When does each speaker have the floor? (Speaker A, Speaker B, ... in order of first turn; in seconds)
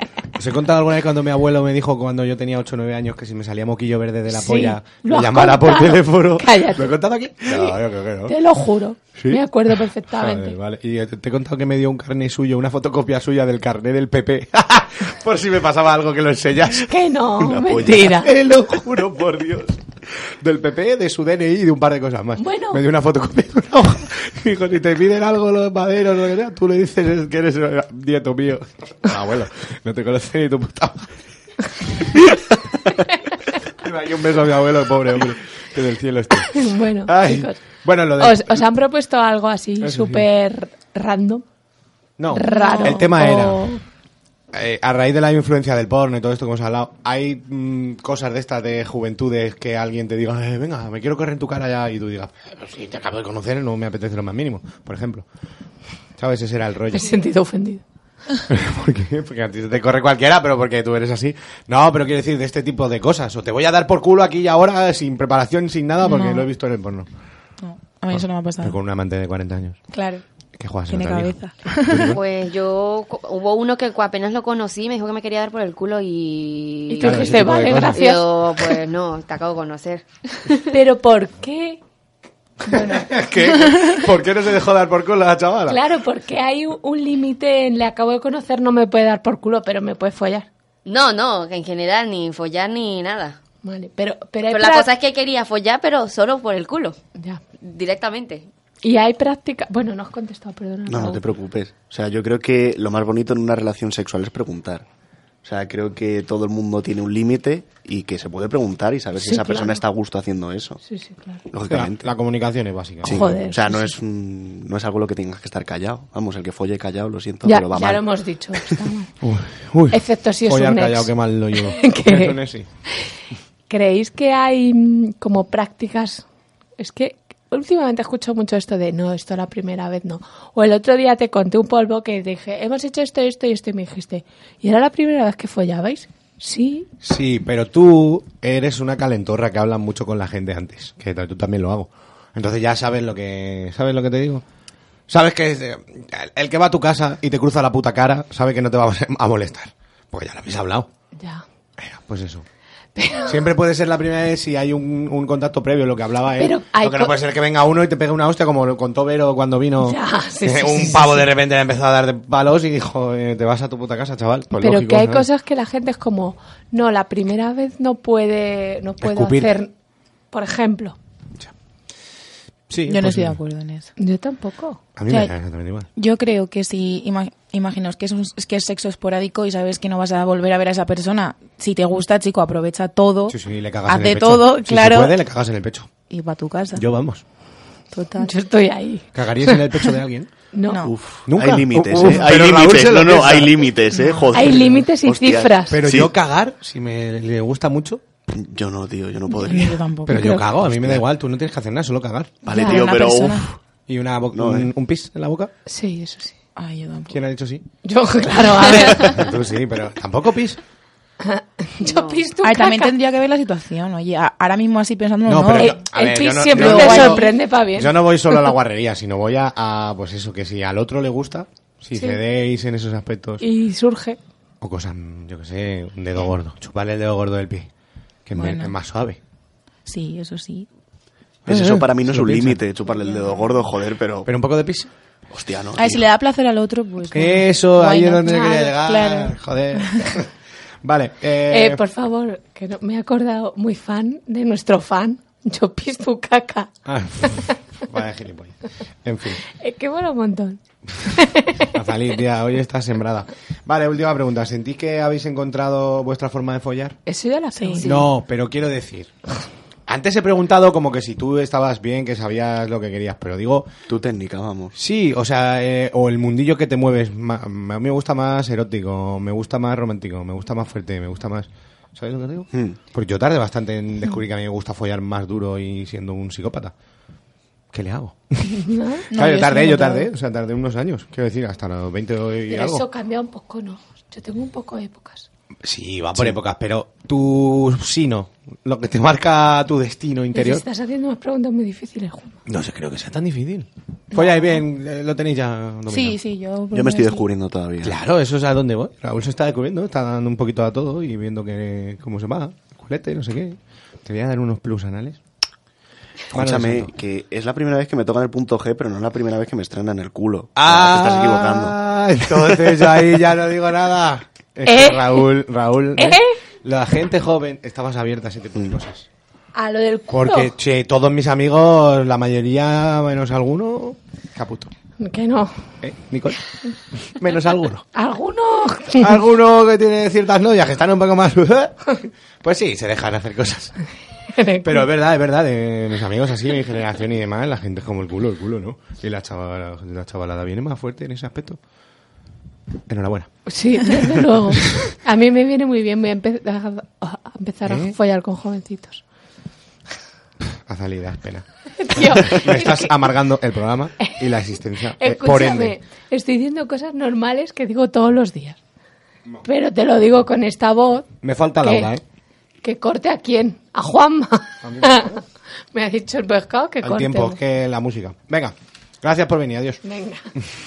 Speaker A: 0.3-8.4, 9.2-16.9, 17.8-31.1, 33.8-38.7, 39.8-40.3, 42.2-43.7, 44.5-55.3, 56.2-57.2, 58.5-67.1, 68.1-69.8, 70.6-71.3, 71.9-72.2, 77.0-78.0, 82.8-85.8, 111.7-113.3, 119.2-122.7, 137.0-144.4, 145.1-150.9, 151.8-152.4, 153.2-165.3, 169.0-169.6, 172.7-173.4, 175.0-175.9, 183.3-185.9, 186.8-187.2, 189.2-190.3, 191.3-193.8, 195.7-198.1, 200.1-202.5, 203.9-205.5, 207.1-207.7, 208.8-210.6, 215.2-223.5, 224.6-227.7, 228.3-229.2, 231.5-232.6, 234.2-234.9, 237.1-240.3, 240.8-241.8, 246.9-249.4, 251.6-257.0, 257.8-259.1, 259.9-263.7, 264.8-276.7, 277.7-282.9, 285.6-290.6, 292.5-296.2, 297.8-305.2, 306.3-306.9, 310.6-319.1, 320.1-324.7, 325.8-326.4, 327.0-327.9, 329.0-333.8, 334.6-341.6, 342.9-343.3, 347.6-348.0, 350.7-355.8, 361.2-362.0, 364.6-365.2, 366.8-369.8
Speaker B: 4.3-10.6, 16.9-18.4, 22.4-22.8, 36.5-37.6, 38.2-41.5, 42.3-43.8, 56.9-57.8, 76.9-78.3, 80.7-81.8, 82.6-83.3, 85.7-90.5, 93.6-94.9, 97.2-97.4, 98.8-101.2, 109.2-109.8, 110.8-111.4, 113.0-113.9, 117.4-119.2, 119.9-122.4, 123.7-126.2, 126.8-136.9, 151.2-151.4, 153.0-153.4, 156.4-157.2, 159.8-161.3, 164.5-169.7, 170.3-171.0, 174.0-174.8, 188.2-189.6, 190.5-190.8, 194.3-195.8, 202.6-202.8, 205.7-206.3, 207.8-209.2, 211.2-212.9, 215.6-218.5, 223.4-224.2, 241.5-246.7, 247.3-247.5, 249.5-251.7, 257.1-258.1, 278.5-279.1, 282.5-285.3, 290.3-292.4, 314.7-315.3, 316.0-316.4, 319.6-320.5, 325.0-325.6, 327.9-329.1, 334.3-334.9, 343.5-349.0, 351.8-352.9, 355.0-358.6, 359.4-361.9, 362.6-365.2, 365.7-367.4, 369.8-370.3
Speaker C: 17.5-18.1, 100.9-104.8, 105.4-110.8, 111.5-112.1, 113.0-118.2, 190.8-196.1, 198.3-199.8, 200.6-201.0, 202.4-203.5, 204.3-204.7, 231.5-234.3, 235.3-236.1, 263.9-264.8, 272.5-272.8, 296.7-298.0, 306.3-311.8
Speaker D: 42.5-43.1, 66.0-66.5, 67.6-68.8, 69.9-70.2, 70.9-72.2, 172.9-173.9, 175.1-175.3, 175.9-185.2, 186.1-186.9, 187.9-188.3, 190.7-190.9, 199.4-200.5, 202.5-203.5, 206.6-207.2, 212.4-215.8, 216.5-217.4, 228.3-228.8, 229.9-230.7, 233.0-233.3, 235.8-239.9, 257.5-257.8, 279.1-280.1, 295.9-297.3
Speaker E: 72.1-80.7, 90.8-93.4, 94.5-97.0, 97.6-98.5, 211.8-212.2